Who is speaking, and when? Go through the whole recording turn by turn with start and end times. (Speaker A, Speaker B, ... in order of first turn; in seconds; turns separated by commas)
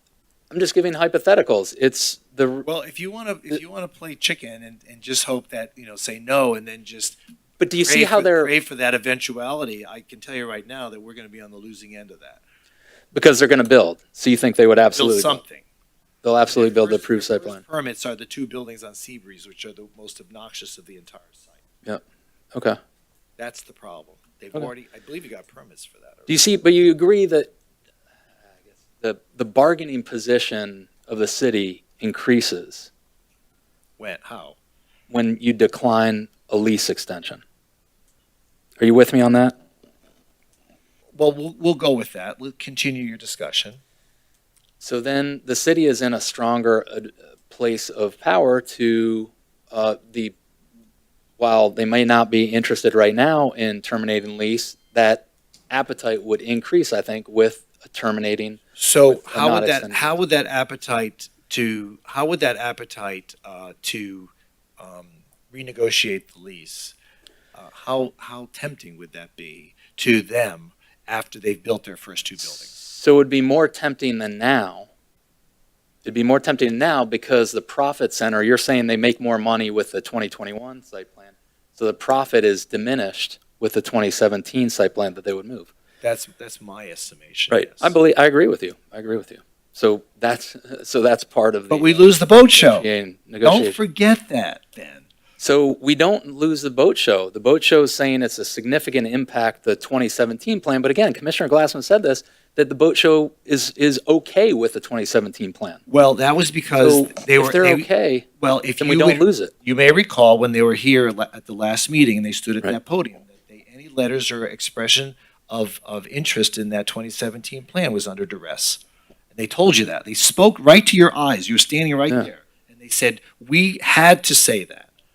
Speaker A: 0.5-2.7, Speaker B: 2.6-7.2, Speaker A: 7.6-8.5, Speaker B: 7.8-12.4, Speaker A: 13.1-15.4, Speaker B: 14.9-15.7, Speaker A: 16.2-17.6, Speaker B: 16.5-21.6, Speaker B: 23.4-26.4, Speaker A: 26.3-27.5, Speaker A: 29.0-32.9, Speaker B: 34.0-34.6, Speaker A: 35.1-37.4, Speaker A: 38.8-39.5, Speaker B: 41.2-43.8, Speaker A: 44.8-50.3, Speaker A: 51.4-60.2, Speaker B: 58.8-67.0, Speaker B: 67.5-72.7, Speaker A: 72.6-74.9, Speaker A: 76.0-85.7, Speaker B: 86.0-87.9, Speaker A: 87.5-93.8, Speaker B: 91.7-92.9, Speaker B: 93.4-95.1, Speaker A: 95.4-105.8, Speaker B: 105.9-107.9, Speaker A: 106.8-108.3, Speaker B: 108.4-118.8, Speaker A: 108.8-109.5, Speaker B: 119.3-124.9